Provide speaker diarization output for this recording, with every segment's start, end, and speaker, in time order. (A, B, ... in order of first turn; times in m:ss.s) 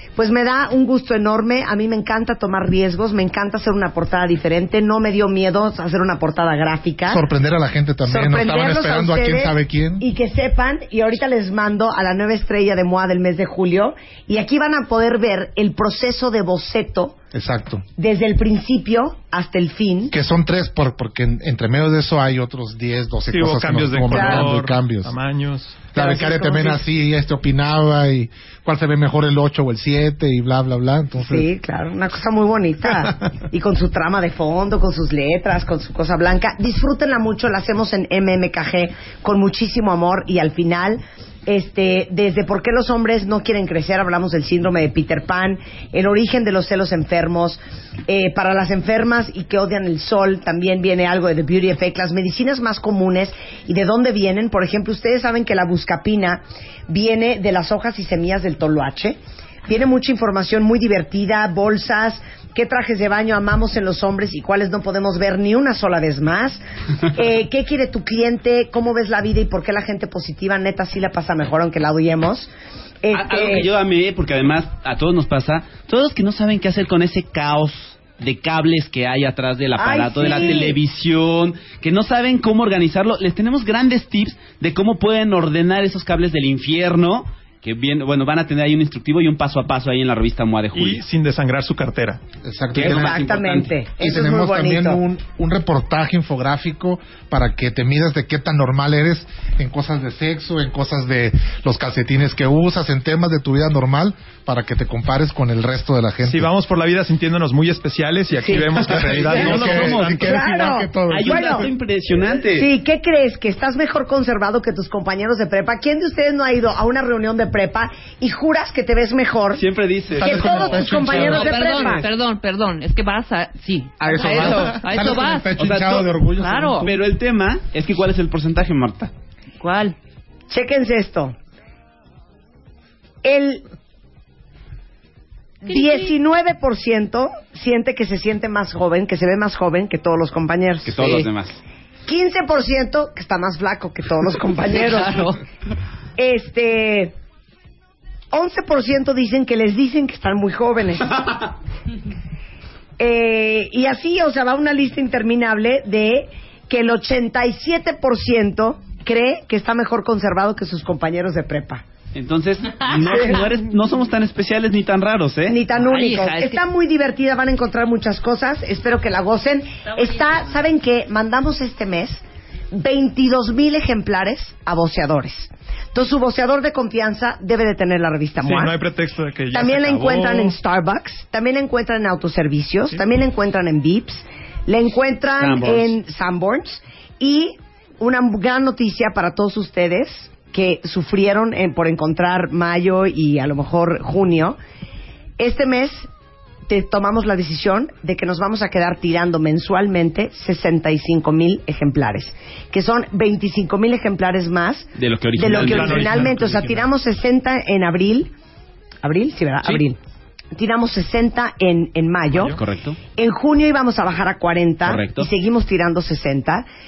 0:00.2-0:07.2 A
0:07.1-0:10.1 B
0:08.1-0:17.2 A
0:17.3-0:17.8 B
0:18.0-0:20.1 A
0:20.1-0:25.1 B
0:23.3-0:26.0 C
0:24.1-0:24.6 A
0:25.9-0:31.5 B
0:26.0-0:26.8 A
0:31.2-1:06.6 A
1:07.1-1:12.5 A
1:13.0-1:13.7 A
1:13.1-1:31.0 D
1:19.8-1:20.8 A
1:30.7-1:32.2 C
1:32.4-1:33.3 B
1:32.8-1:33.7 D
1:32.8-1:35.0 A
1:34.0-1:46.5 B
1:46.2-1:50.5 C
1:48.8-1:51.7 B
1:48.9-1:50.3 D
1:49.4-1:51.7 A
1:51.1-1:52.7 D
1:52.5-1:59.6 A
1:59.5-2:01.4 D
2:00.2-2:02.1 A
2:00.2-2:02.0 B
2:01.1-2:05.5 E
2:04.0-2:07.0 B
2:05.6-2:06.1 D
2:06.4-2:06.9 E
2:06.8-2:09.1 D
2:09.6-2:10.0 E
2:10.5-2:11.4 A
2:13.2-2:13.6 A
2:15.6-2:21.2 A
2:15.7-2:16.1 E
2:20.9-2:21.6 D
2:22.1-2:25.3 A
2:24.7-2:25.4 E
2:26.2-2:27.2 A
2:28.3-2:31.2 A
2:33.0-2:41.8 A
2:42.1-2:45.6 D
2:45.5-2:58.8 A
2:45.8-2:46.6 E
2:58.4-3:00.6 C
2:59.5-3:14.6 A
3:05.4-3:06.0 D
3:15.4-3:16.1 A
3:16.7-3:28.3 A
3:25.0-3:26.4 D
3:25.5-3:26.9 C
3:29.0-3:30.0 A
3:30.5-3:32.6 A
3:32.5-3:33.0 D
3:33.2-3:36.7 A
3:34.8-3:35.3 D